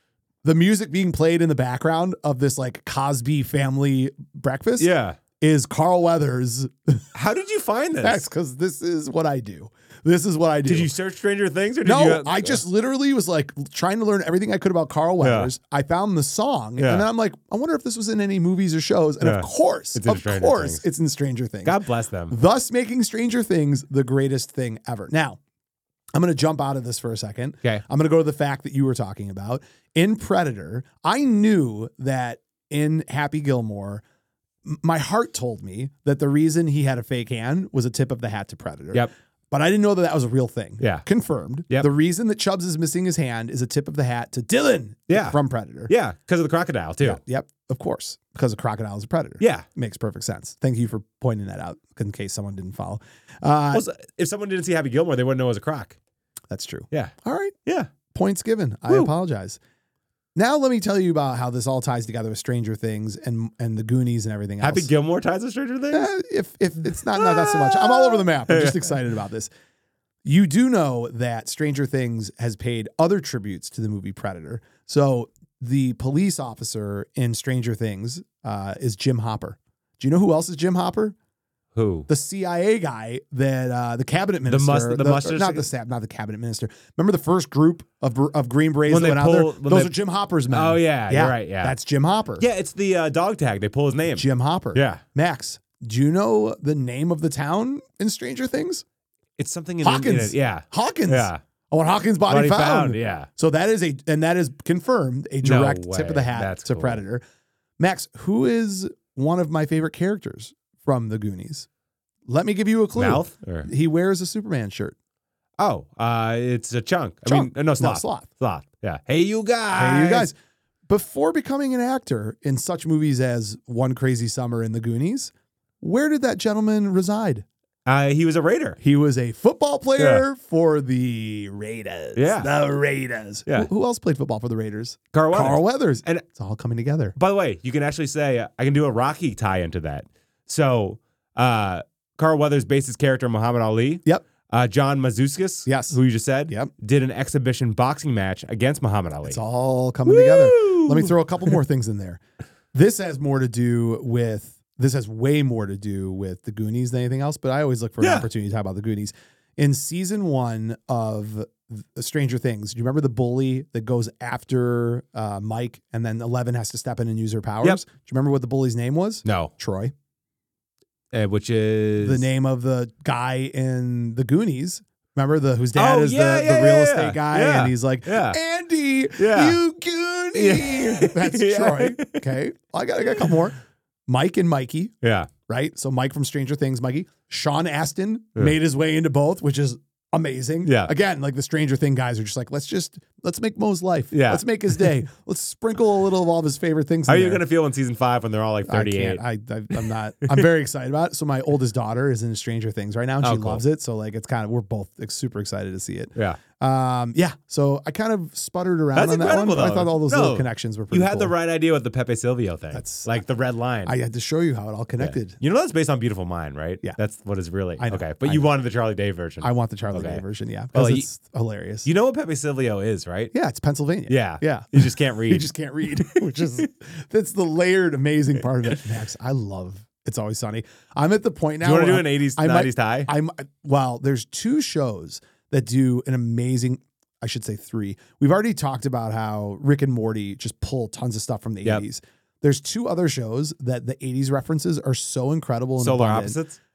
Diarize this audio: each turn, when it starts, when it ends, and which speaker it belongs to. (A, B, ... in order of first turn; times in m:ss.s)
0:00.4-0:07.1 A
0:04.8-0:05.2 B
0:07.1-0:08.3 B
0:08.0-0:10.9 A
0:10.6-0:12.6 B
0:11.8-0:25.4 A
0:15.2-0:15.5 B
0:16.8-0:17.1 B
0:19.2-0:20.9 B
0:21.6-0:22.4 B
0:26.1-0:34.0 A
0:34.6-0:45.9 A
0:40.8-0:41.0 B
0:45.1-0:45.4 B
0:45.9-0:47.2 B
0:47.0-0:53.8 A
0:49.4-0:49.7 B
0:53.7-0:56.0 B
0:56.5-0:57.6 A
0:57.7-0:57.9 B
0:58.1-0:59.6 A
1:00.4-1:04.9 A
1:04.6-1:06.1 B
1:05.9-1:09.5 A
1:07.1-1:08.9 B
1:10.2-1:21.2 A
1:21.7-1:22.1 B
1:22.1-1:32.5 A
1:24.5-1:25.7 B
1:28.9-1:29.9 B
1:30.5-1:31.8 B
1:32.4-1:35.0 B
1:34.1-1:38.8 A
1:39.4-1:41.4 B
1:39.8-1:47.2 A
1:42.3-1:43.3 B
1:45.4-1:47.0 B
1:47.8-1:51.7 A
1:52.3-1:55.0 A
1:53.0-1:53.7 B
1:55.6-2:00.3 B
1:57.2-1:58.3 A
1:59.7-2:00.4 A
2:00.9-2:07.5 A
2:07.9-2:08.8 B
2:08.8-2:17.2 A
2:10.0-2:10.2 B
2:12.2-2:12.5 B
2:15.1-2:16.2 B
2:17.2-2:29.4 B
2:25.7-2:26.7 A
2:29.2-2:32.2 A
2:30.1-2:31.5 B
2:32.7-2:49.9 A
2:38.0-2:38.3 B
2:49.2-2:49.5 B
2:51.1-2:52.3 B
2:52.0-3:05.0 A
2:55.8-2:58.4 B
2:59.2-2:59.6 B
3:00.4-3:02.2 B
3:05.0-3:05.3 B
3:05.5-3:17.4 A
3:10.6-3:10.9 B
3:14.1-3:14.9 B
3:17.1-3:19.2 B
3:18.7-3:31.3 A
3:19.7-3:20.5 B
3:23.2-3:23.6 B
3:26.2-3:26.4 B
3:28.9-3:33.9 B
3:32.7-3:33.2 A
3:33.9-3:35.4 A
3:35.0-3:40.2 B
3:37.8-3:38.5 A
3:39.4-3:41.9 A
3:40.7-3:41.1 B
3:41.8-3:43.3 B
3:43.3-4:06.4 A
3:44.1-3:46.4 B
3:51.6-3:53.1 B
4:05.8-4:06.6 B